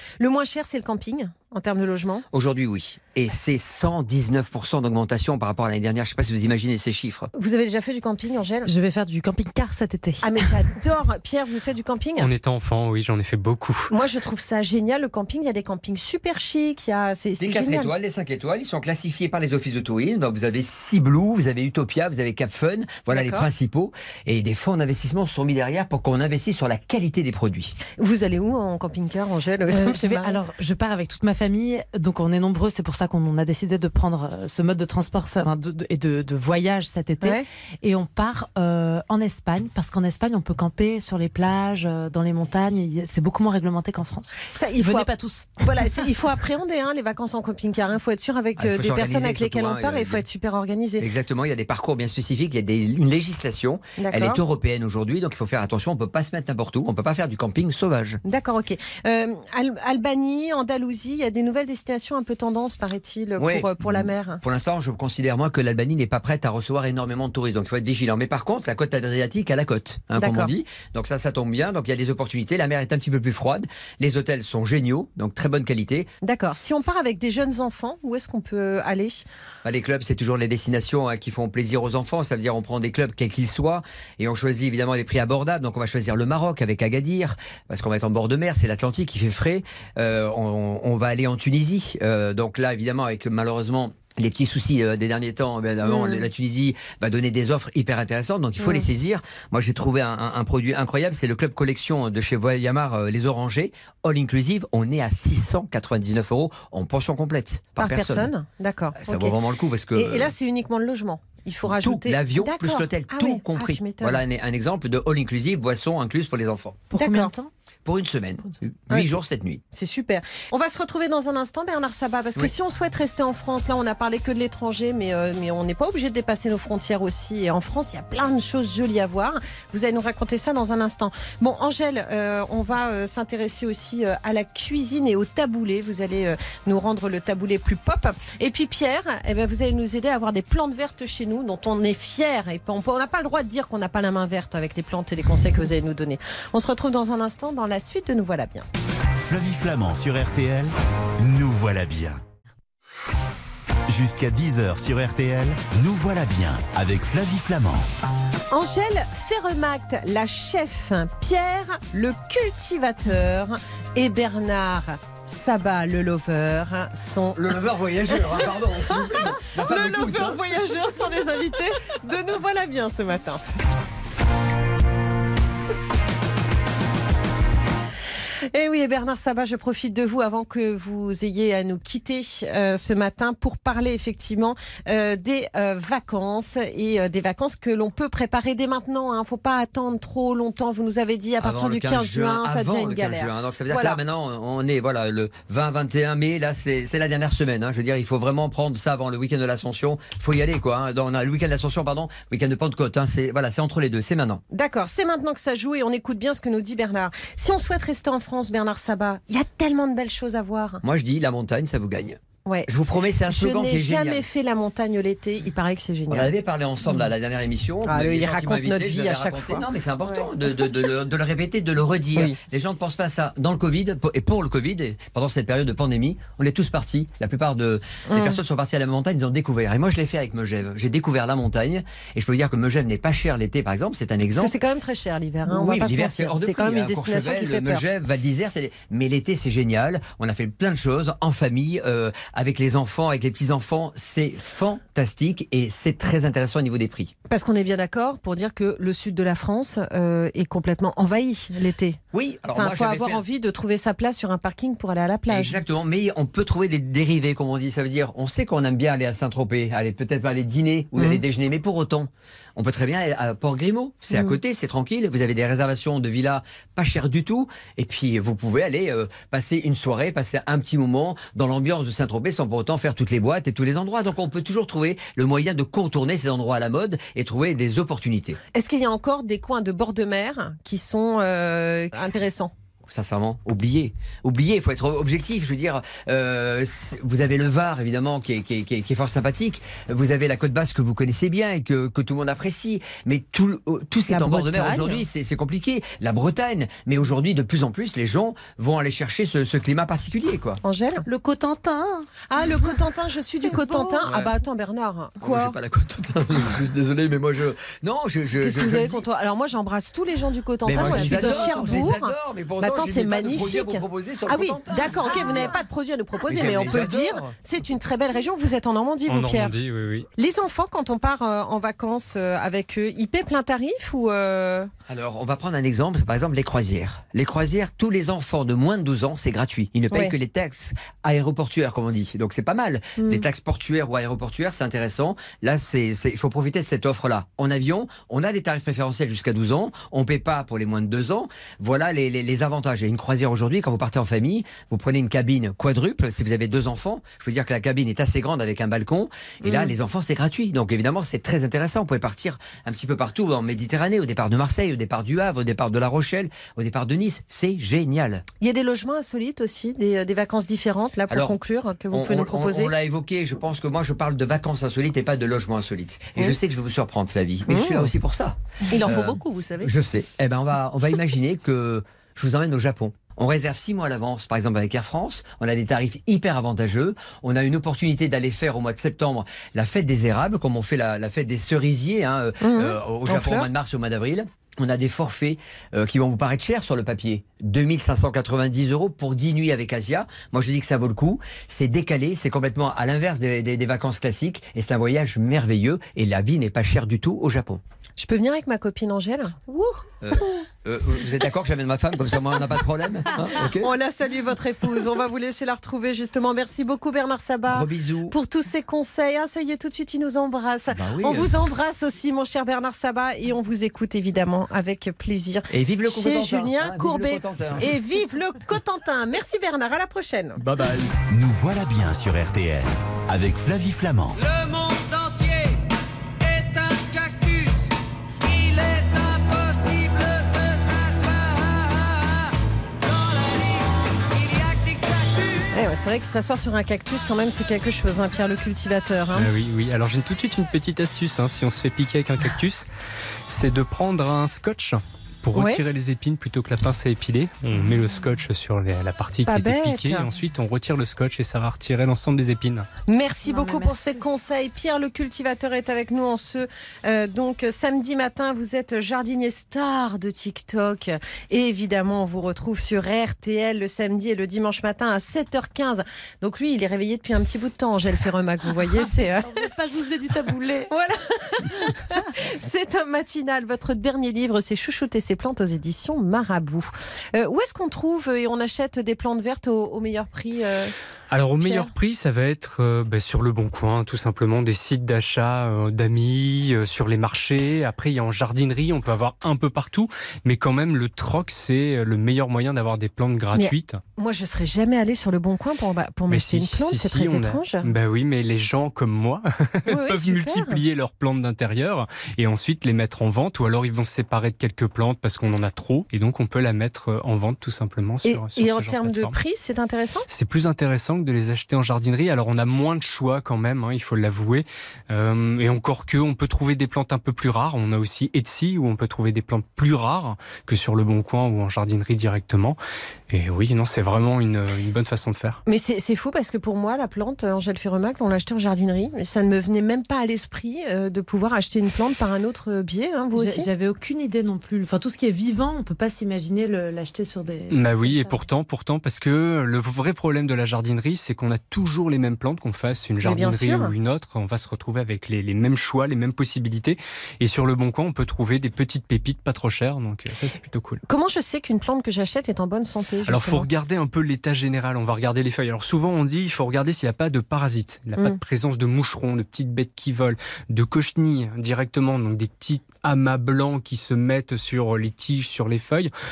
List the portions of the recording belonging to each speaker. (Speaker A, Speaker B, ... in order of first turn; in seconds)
Speaker A: 0.2-2.2, 7.3-8.7, 10.2-12.3, 13.9-17.9, 23.1-23.5, 28.0-30.4, 37.2-37.5, 44.5-51.1, 54.0-54.4, 58.2-64.4, 70.2-70.5, 76.2-79.2, 95.8-96.2, 98.6-98.9, 107.8-109.4, 109.9-114.2, 116.9-117.3, 118.9-119.2, 119.7-148.7, 158.5-167.6, 168.1-173.4, 178.5-194.0, 204.5-210.8, 212.4-212.7, 213.3-216.3, 217.8-220.3, 228.1-228.4, 234.3-237.8, 247.3-252.0, 252.5-255.6, 261.0-261.2, 264.1-264.4, 278.5-282.5, 294.1-295.1, 300.6-301.1, 302.3-305.6, 308.4-319.5, 320.2-324.7, 329.9-330.1, 333.0-333.2, 349.4-349.7, 358.4-362.7, 367.5-367.9, 368.7-369.7, 382.4-383.5, 398.0-399.5, 403.4-420.4, 435.5-439.3, 445.3-445.6, 449.3-450.1, 452.9-469.5, 470.7-480.7, 481.4-481.7, 493.3-497.7, 499.7-500.6, 508.0-510.1, 525.5-533.5, 543.0-543.8, 550.9-553.5
Speaker B: 2.3-7.3, 17.4-27.8, 48.6-50.2, 51.0-58.2, 63.4-76.1, 79.6-108.3, 109.0-110.3, 111.7-116.9, 117.8-119.6, 167.3-170.4, 191.4-204.4, 210.8-214.2, 216.1-234.6, 235.5-247.1, 252.1-253.2, 255.3-278.4, 282.9-300.6, 305.2-309.0, 310.6-315.6, 316.3-317.3, 324.9-358.2, 361.1-361.4, 361.9-397.6, 400.0-403.7, 407.5-408.1, 410.8-411.3, 415.5-417.7, 420.4-420.9
Speaker C: 8.7-10.4, 29.7-45.8, 116.9-117.5, 301.1-302.1, 303.5-304.1, 310.8-311.8, 399.5-399.8, 453.3-453.7, 468.8-470.7, 533.1-538.2
Speaker D: 12.2-13.9, 319.1-320.1, 439.1-442.7, 443.3-452.7, 481.1-493.8, 496.1-509.2, 510.1-522.6, 523.1-525.4, 537.5-550.8, 553.1-565.9
Speaker E: 149.2-152.2, 153.9-157.9, 421.1-424.2
Speaker F: 424.3-425.6, 426.2-427.7, 428.2-432.1, 432.9-433.6, 434.2-435.4